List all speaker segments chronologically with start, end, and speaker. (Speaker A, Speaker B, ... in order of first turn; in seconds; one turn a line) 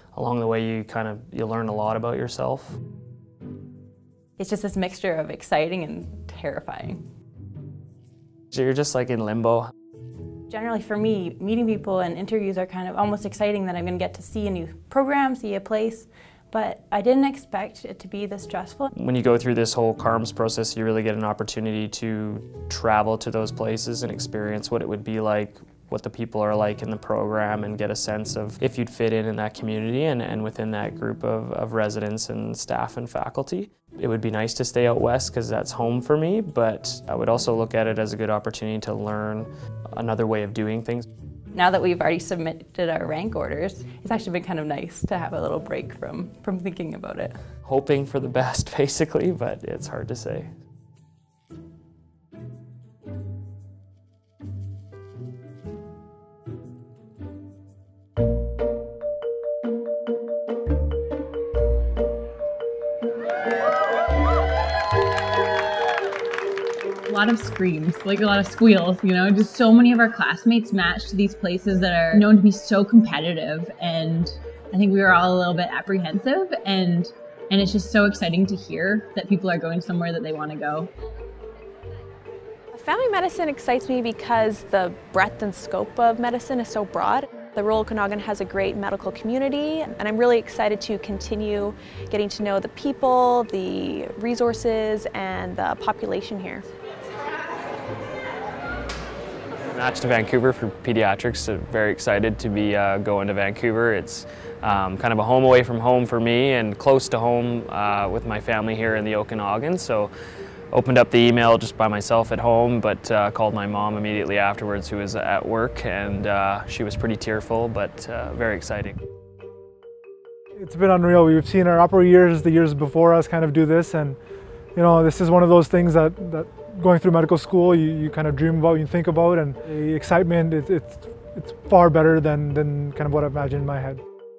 Speaker A: 0.1-2.8
Speaker B: 4.4-7.0
Speaker A: 8.5-9.7
Speaker B: 10.5-18.9
Speaker A: 18.9-41.1
Speaker B: 41.5-47.4
Speaker A: 47.6-50.5
Speaker C: 67.1-80.9
Speaker D: 82.7-96.6
Speaker A: 99.7-110.1
Speaker A: 110.7-119.0
Speaker E: 120.6-124.2
Speaker E: 124.8-134.0